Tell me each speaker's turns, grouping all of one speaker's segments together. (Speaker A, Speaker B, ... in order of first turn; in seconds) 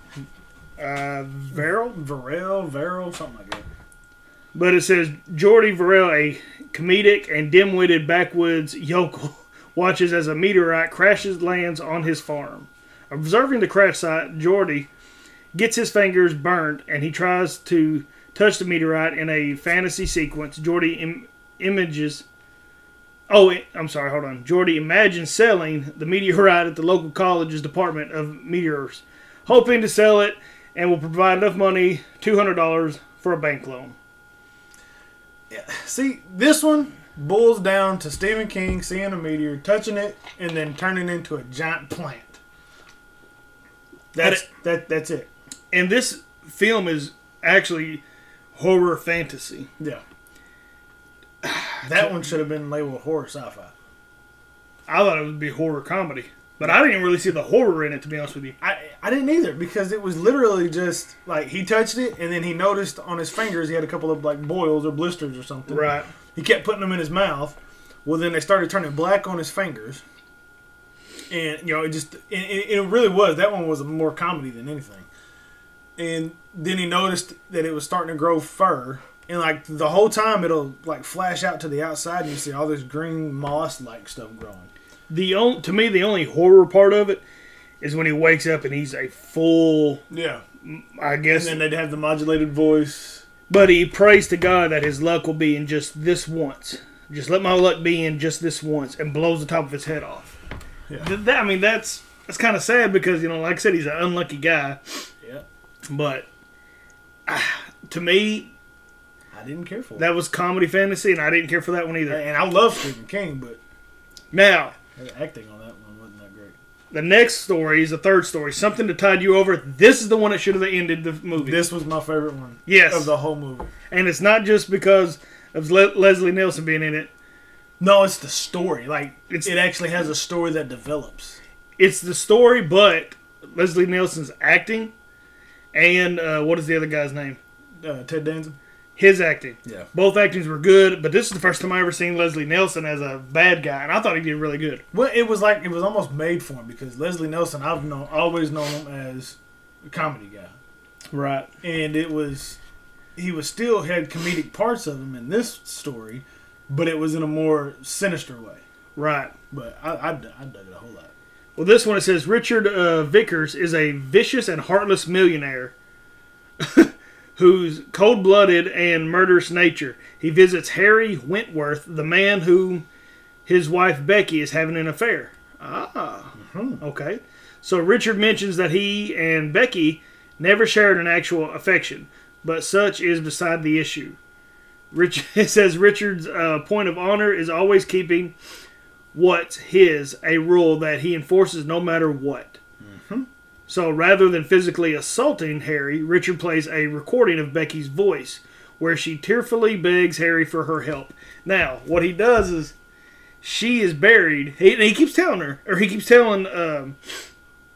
Speaker A: 0.8-2.0, 4.5-14.9, 15.5-22.2, 23.3-34.0, 44.2-44.4, 45.7-48.0, 48.5-49.7, 51.4-52.3, 54.9-58.6, 65.7-66.1, 85.1-87.2, 87.8-90.0, 90.6-91.6, 93.5-100.4, 101.0-105.1, 105.9-106.3, 107.3-108.5, 110.0-112.2, 114.3-114.8, 116.9-121.6, 122.7-123.1, 123.9-127.1, 131.8-134.9, 135.7-137.4, 139.0-144.8, 151.1-151.5, 159.0-159.3, 161.6-165.7, 166.6-172.9, 173.5-184.2, 184.9-188.3, 189.1-192.6, 193.7-202.8, 203.4-207.0
Speaker B: 1.5-3.6, 35.5-42.4, 44.1-45.3, 51.9-53.7, 58.6-70.0, 71.3-75.1, 76.0-84.7, 90.1-90.4, 91.3-93.2, 109.3-110.1, 112.1-113.6, 115.0-116.6, 121.4-123.7, 127.8-131.4, 137.8-138.6, 144.9-150.5, 151.6-152.6, 153.2-158.6, 159.5-161.1, 176.3-176.8, 192.8-193.3